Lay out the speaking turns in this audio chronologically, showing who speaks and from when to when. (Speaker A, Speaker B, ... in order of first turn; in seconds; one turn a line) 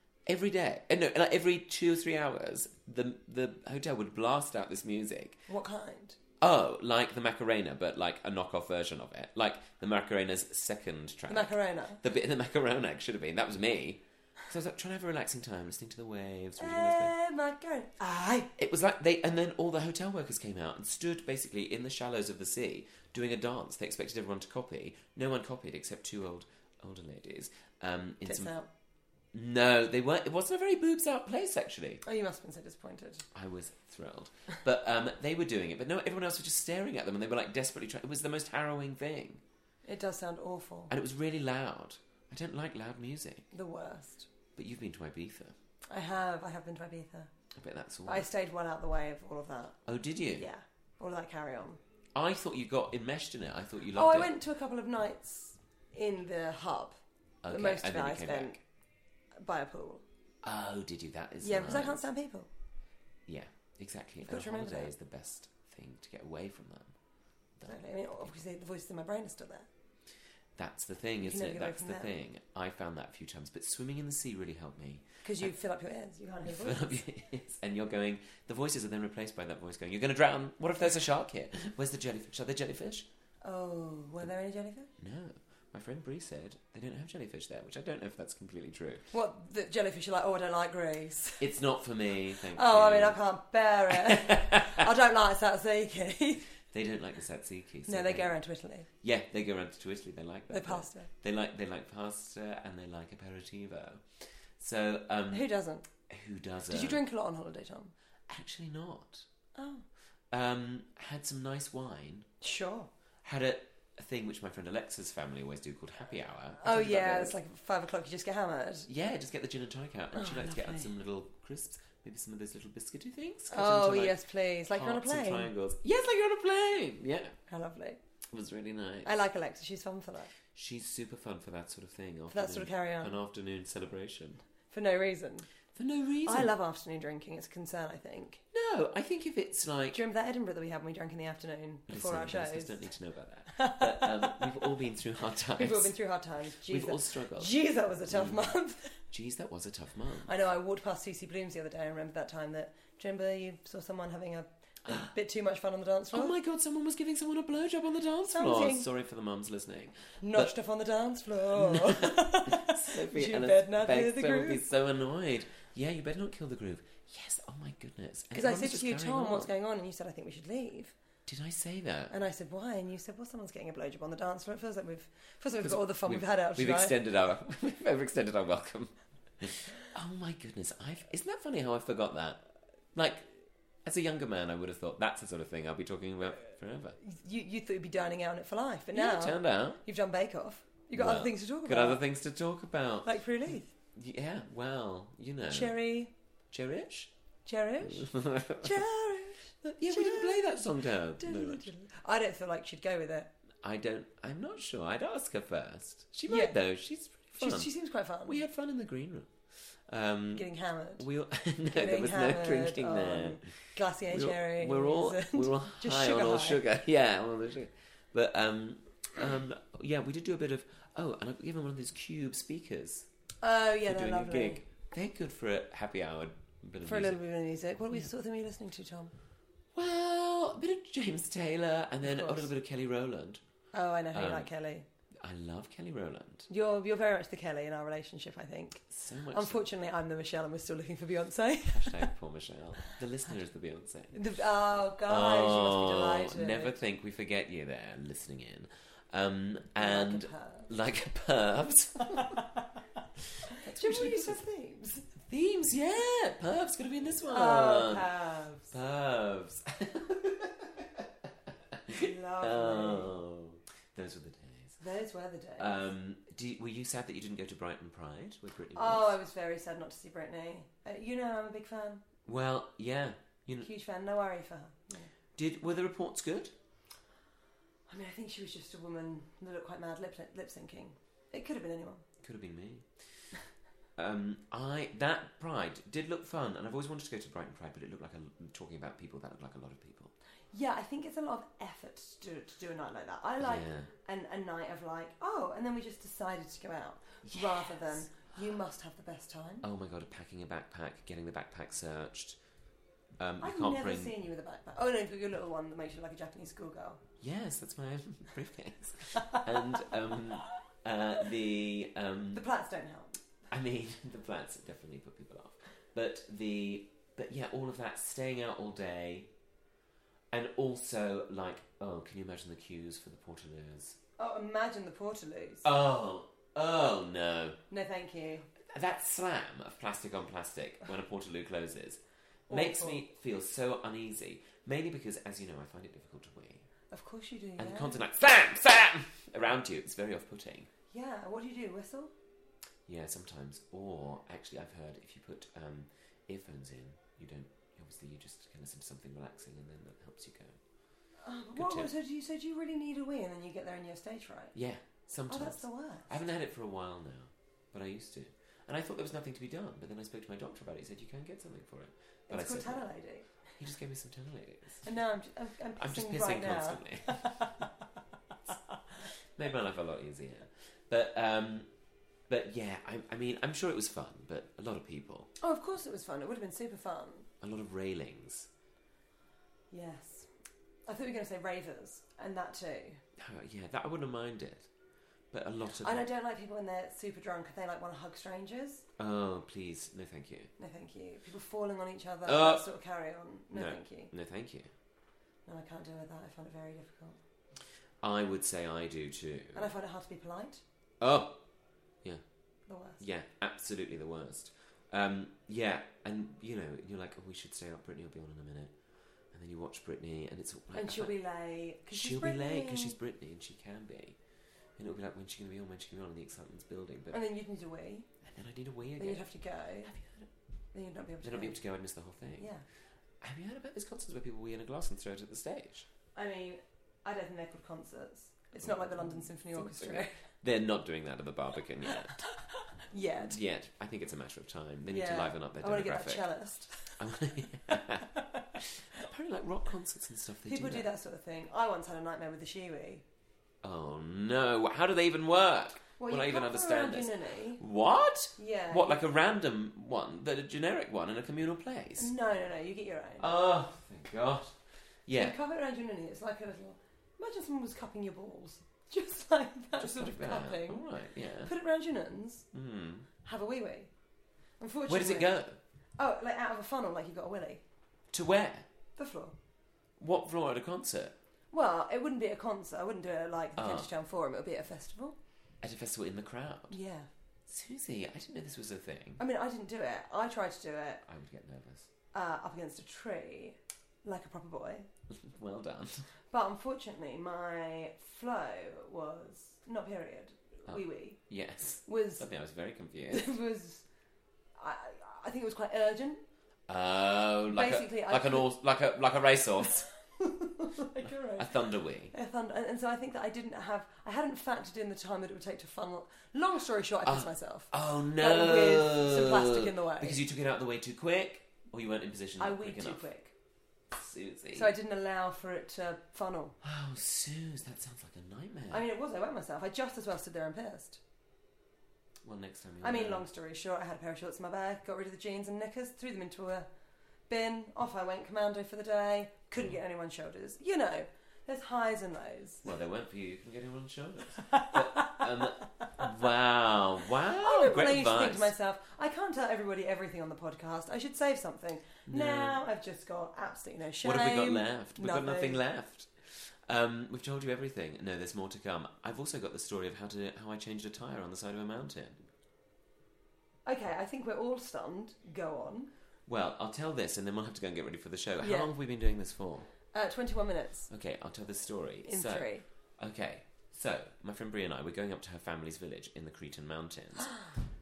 Speaker A: 0.2-5.4
Speaker B: 5.5-6.2
Speaker A: 6.4-17.1
Speaker B: 11.3-12.0
Speaker B: 16.6-18.5
Speaker A: 18.6-28.5
Speaker B: 28.2-28.7
Speaker A: 29.3-32.0
Speaker B: 32.0-33.2
Speaker A: 33.3-39.4
Speaker B: 39.9-40.9
Speaker A: 40.9-43.5
Speaker B: 43.5-44.3
Speaker A: 44.5-45.5
Speaker B: 45.9-47.3
Speaker A: 47.5-48.3
Speaker B: 48.0-49.8
Speaker A: 49.9-50.5
Speaker B: 50.3-51.8
Speaker A: 52.1-54.3
Speaker B: 53.9-58.6
Speaker A: 57.4-58.6
Speaker B: 59.4-60.0
Speaker A: 60.4-62.0
Speaker B: 61.4-62.5
Speaker A: 63.3-66.9
Speaker B: 64.2-64.9
Speaker A: 67.6-68.3
Speaker B: 67.7-69.7
Speaker A: 70.5-75.5
Speaker B: 71.2-72.1
Speaker B: 75.2-77.0
Speaker A: 76.5-83.1
Speaker B: 83.4-84.9
Speaker A: 85.0-89.1
Speaker B: 89.1-91.4
Speaker A: 91.4-93.2
Speaker B: 92.5-96.5
Speaker A: 93.9-94.8
Speaker A: 96.7-98.3
Speaker B: 97.9-98.9
Speaker A: 99.0-105.5
Speaker B: 100.5-101.1
Speaker B: 105.3-105.9
Speaker A: 106.1-107.0
Speaker B: 106.7-107.9
Speaker A: 108.3-109.2
Speaker B: 109.5-109.8
Speaker A: 110.3-112.3
Speaker B: 112.4-112.9
Speaker A: 113.2-117.3
Speaker B: 116.6-118.9
Speaker A: 118.9-127.3
Speaker B: 120.1-120.9
Speaker B: 123.5-125.5
Speaker B: 127.5-128.0
Speaker A: 128.3-129.1
Speaker B: 129.0-130.3
Speaker A: 130.5-134.4
Speaker B: 132.3-133.1
Speaker B: 134.7-135.5
Speaker A: 135.7-136.5
Speaker B: 136.2-138.4
Speaker A: 138.5-140.0
Speaker B: 139.9-142.8
Speaker A: 141.9-145.9
Speaker B: 143.5-144.5
Speaker B: 145.6-148.9
Speaker A: 146.7-147.5
Speaker A: 148.1-148.5
Speaker A: 149.1-150.3
Speaker B: 150.2-156.3
Speaker A: 156.1-160.5
Speaker B: 158.3-158.9
Speaker B: 160.2-164.6
Speaker A: 161.5-169.5
Speaker B: 168.3-170.9
Speaker A: 171.3-172.1
Speaker B: 172.1-176.9
Speaker A: 175.6-182.4
Speaker A: 182.9-183.3
Speaker A: 183.8-187.0
Speaker B: 187.0-192.0
Speaker A: 188.9-189.8
Speaker A: 190.9-193.2
Speaker B: 193.0-193.7
Speaker A: 193.9-195.8
Speaker B: 195.5-196.1
Speaker A: 196.5-197.1
Speaker B: 197.4-200.6
Speaker A: 197.8-198.8
Speaker A: 199.6-201.7
Speaker B: 201.2-203.3
Speaker A: 203.6-207.7
Speaker B: 206.3-206.6
Speaker B: 207.4-208.4
Speaker A: 208.2-209.3
Speaker A: 209.9-223.1
Speaker B: 210.3-211.0
Speaker B: 211.7-216.6
Speaker B: 223.4-224.6
Speaker A: 223.8-227.2
Speaker B: 226.8-229.1
Speaker A: 229.7-233.4
Speaker B: 232.0-232.5
Speaker B: 233.7-234.8
Speaker A: 234.1-234.5
Speaker A: 235.2-236.5
Speaker B: 236.5-242.1
Speaker A: 238.9-239.7
Speaker A: 241.7-244.3
Speaker B: 244.1-246.8
Speaker A: 245.1-252.4
Speaker B: 249.8-250.7
Speaker B: 252.1-252.7
Speaker B: 253.5-255.1
Speaker A: 253.5-254.4
Speaker A: 255.3-258.1
Speaker B: 257.3-258.7
Speaker A: 258.7-261.1
Speaker A: 261.7-264.8
Speaker B: 261.9-263.1
Speaker B: 264.8-265.9
Speaker A: 265.6-269.2
Speaker B: 268.7-272.0
Speaker A: 272.3-273.7
Speaker B: 273.6-275.1
Speaker A: 275.4-276.5
Speaker B: 277.9-282.0
Speaker A: 282.2-283.3
Speaker A: 284.0-290.1
Speaker B: 290.5-299.6
Speaker A: 293.4-293.9
Speaker A: 297.2-298.0
Speaker A: 299.6-302.4
Speaker A: 303.2-304.1
Speaker B: 303.4-307.0
Speaker A: 307.2-312.4
Speaker B: 312.3-313.2
Speaker A: 313.5-319.3
Speaker A: 320.3-324.0
Speaker B: 324.2-325.6
Speaker A: 325.6-327.6
Speaker B: 327.7-328.5
Speaker A: 328.7-336.6
Speaker B: 332.5-333.0
Speaker B: 336.9-338.0
Speaker A: 337.6-340.7
Speaker B: 340.9-342.1
Speaker A: 342.9-350.6
Speaker B: 351.2-354.5
Speaker A: 351.5-351.9
Speaker A: 354.5-362.9
Speaker B: 355.3-356.1
Speaker B: 362.3-363.3
Speaker A: 363.6-364.9
Speaker B: 364.8-367.7
Speaker A: 365.8-367.5
Speaker A: 369.4-371.7
Speaker A: 372.3-375.3
Speaker B: 375.4-377.3
Speaker A: 377.4-378.5
Speaker B: 379.7-380.3
Speaker B: 380.9-383.0
Speaker A: 383.2-384.6
Speaker A: 385.3-386.0
Speaker B: 385.8-388.8
Speaker A: 389.0-390.5
Speaker B: 390.6-394.1
Speaker A: 392.2-392.6
Speaker A: 393.5-394.7
Speaker B: 395.4-397.2
Speaker A: 398.0-399.7
Speaker B: 399.5-400.6
Speaker A: 401.0-401.4
Speaker B: 402.7-403.0
Speaker A: 403.0-408.7
Speaker A: 409.3-411.1
Speaker B: 410.7-412.9
Speaker A: 411.9-414.1
Speaker A: 414.8-417.2
Speaker B: 417.1-418.1
Speaker A: 418.2-419.3
Speaker B: 419.0-419.9
Speaker A: 419.8-420.3
Speaker B: 420.7-421.6
Speaker A: 421.2-422.5
Speaker B: 422.4-422.6
Speaker A: 423.2-425.9
Speaker B: 426.1-430.2
Speaker A: 428.6-432.2
Speaker B: 432.8-433.4
Speaker A: 433.2-436.3
Speaker B: 434.9-437.0
Speaker A: 437.0-440.9
Speaker B: 440.4-443.0
Speaker A: 443.6-452.1
Speaker B: 446.0-447.6
Speaker B: 448.4-449.0
Speaker B: 452.0-453.3
Speaker A: 453.2-454.5
Speaker A: 455.1-455.4
Speaker B: 455.1-460.9
Speaker A: 459.8-461.5
Speaker B: 461.4-462.5
Speaker A: 462.5-463.1
Speaker B: 463.2-463.9
Speaker B: 464.6-465.3
Speaker A: 464.9-465.6
Speaker B: 466.0-467.6
Speaker A: 468.1-468.6
Speaker B: 469.0-469.4
Speaker A: 470.0-471.1
Speaker B: 471.5-475.1
Speaker A: 473.6-473.9
Speaker A: 475.6-476.7
Speaker B: 476.7-477.1
Speaker A: 477.5-479.2
Speaker B: 479.2-481.0
Speaker A: 481.1-481.9
Speaker B: 482.1-484.9
Speaker A: 485.1-486.1
Speaker B: 486.3-491.2
Speaker A: 490.7-493.3
Speaker B: 491.9-492.2
Speaker B: 493.1-493.8
Speaker B: 494.6-496.2
Speaker A: 496.7-499.9
Speaker B: 497.5-498.5
Speaker B: 500.2-501.5
Speaker A: 501.4-502.1
Speaker B: 502.1-510.2
Speaker A: 507.0-513.0
Speaker B: 512.4-513.3
Speaker A: 513.9-514.7
Speaker B: 514.5-516.5
Speaker A: 516.6-518.9
Speaker B: 518.7-521.0
Speaker A: 522.2-523.2
Speaker B: 522.8-526.7
Speaker B: 527.3-532.7
Speaker A: 532.6-538.5
Speaker B: 534.4-535.2
Speaker B: 537.4-545.6
Speaker A: 542.1-542.6
Speaker A: 544.0-552.2
Speaker B: 553.6-555.9
Speaker A: 556.3-559.7
Speaker B: 558.4-558.7
Speaker B: 559.9-560.9
Speaker A: 560.9-567.4
Speaker B: 562.0-562.6